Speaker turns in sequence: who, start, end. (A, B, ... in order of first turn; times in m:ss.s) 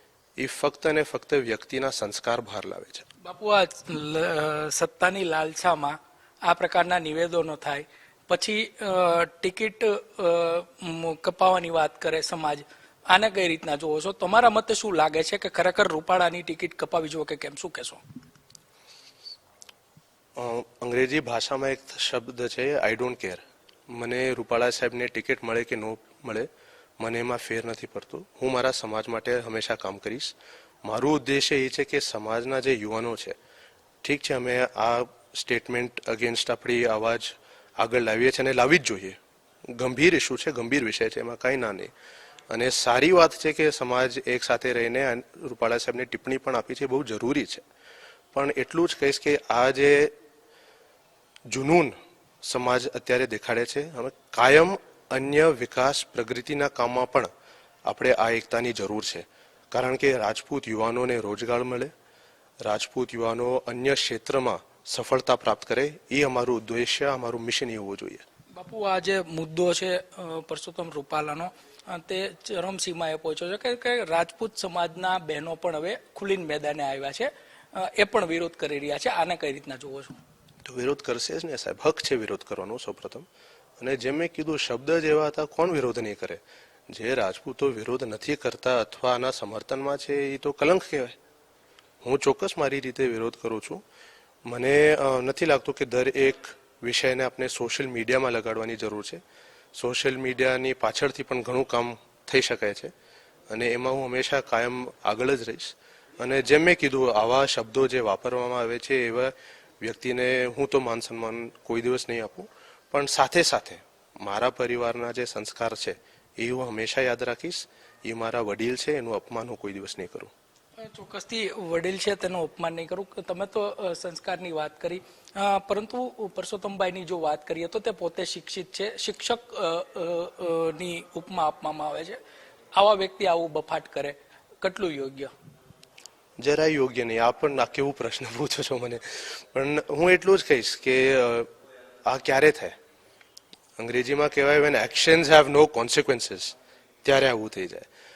0:00.4-0:03.0 A
0:03.2-0:18.0 B
0:20.4-0:33.4 A
0:34.0-0:41.9 A
0:42.5-0:47.6 A
0:48.3-0:50.1 A
0:51.5-0:57.3 A
0:57.8-1:01.9 A
1:02.6-1:08.2 A
1:08.6-1:20.2 B
1:20.6-1:23.2 A
1:23.8-1:31.2 A
1:32.0-1:33.8 A
1:34.5-1:39.2 A
1:39.8-1:42.9 A
1:43.5-2:00.3 A
2:00.8-2:12.2 B
2:12.7-2:15.3 B
2:16.4-2:21.5 A
2:22.1-2:22.8 A
2:23.8-2:27.9 A